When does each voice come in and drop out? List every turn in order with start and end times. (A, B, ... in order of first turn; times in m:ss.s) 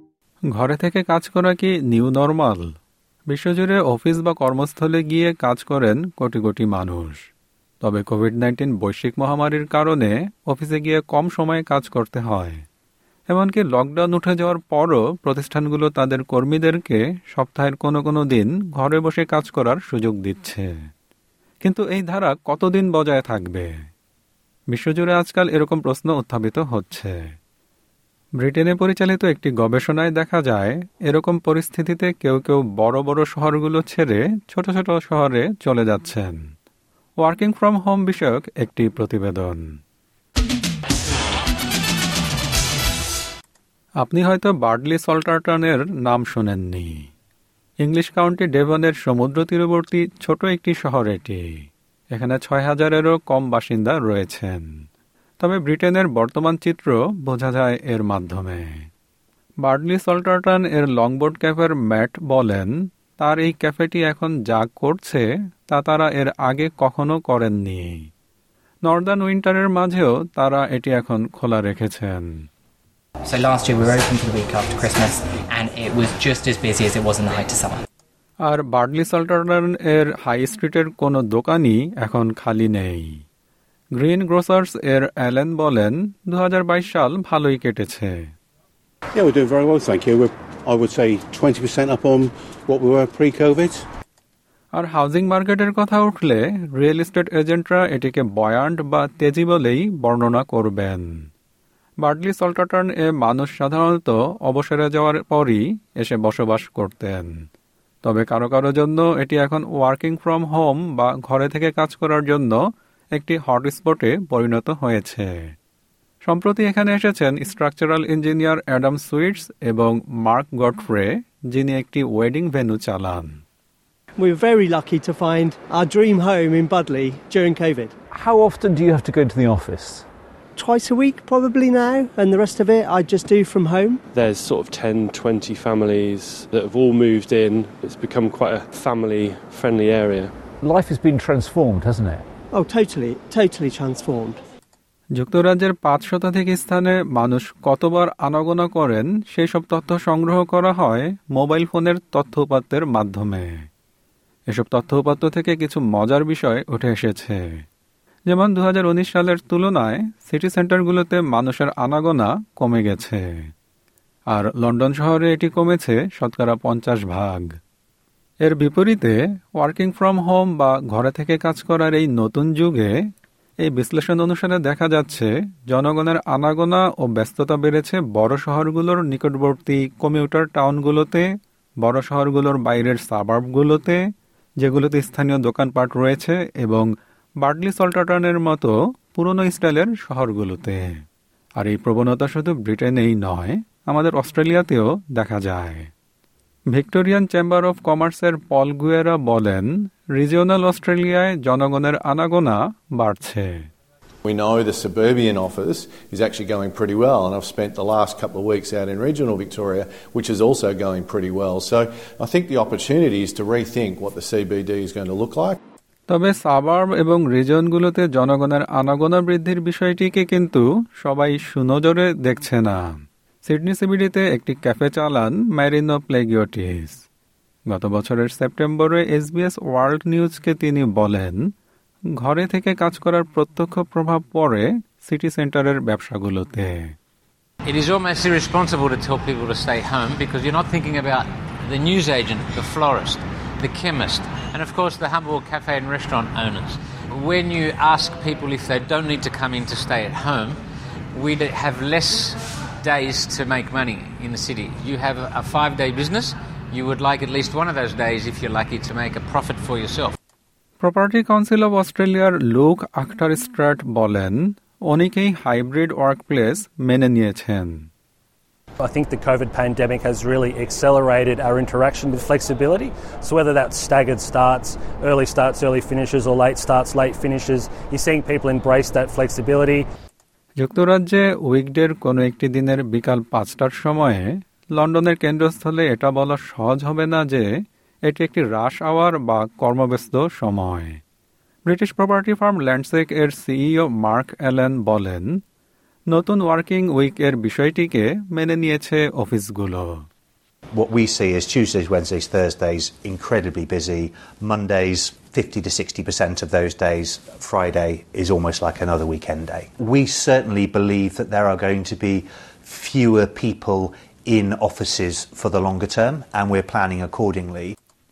0:00.5-0:02.7 A
0:03.3-0:07.3 A
0:07.8-0:12.6 A
0:13.3-0:20.7 A
0:21.6-0:23.8 A
0:24.7-0:27.2 A
0:28.4-0:36.4 A
0:37.2-0:39.7 A
0:44.0-0:47.1 A
0:47.8-0:54.7 A
0:55.4-0:58.9 A
0:59.6-1:08.1 A
1:08.8-1:12.5 A
1:13.3-1:17.8 B
1:18.4-1:23.2 A
1:23.9-1:28.3 A
1:29.2-1:33.8 C
1:34.7-1:41.3 A
1:42.0-1:47.4 A
1:48.0-1:52.6 A
1:53.1-1:55.5 A
1:56.2-2:03.4 A
2:04.2-2:07.9 D
2:08.1-2:10.1 E
2:10.6-2:14.0 D
2:14.1-2:20.3 F
2:20.6-2:22.3 E
2:22.5-2:24.4 D
2:25.2-2:33.7 A
2:34.5-2:37.6 A
2:38.3-2:43.5 A
2:44.3-2:47.5 A
2:48.4-2:53.0 A
2:53.6-3:01.3 A
3:01.8-3:04.0 A
3:04.6-3:06.9 A
3:07.4-3:11.0 A
3:11.6-3:15.9 A
3:16.7-3:23.7 A
3:24.2-3:35.6 G
3:36.1-3:47.0 A
3:47.7-3:51.5 A
3:52.2-3:57.0 A
3:57.7-4:10.6 H
4:11.1-4:20.2 H
4:20.8-4:27.9 A
4:28.8-4:39.9 I
4:40.6-4:47.5 A
4:48.0-4:51.0 A
4:51.7-4:55.4 A
4:56.1-5:00.1 A
5:00.7-5:17.8 J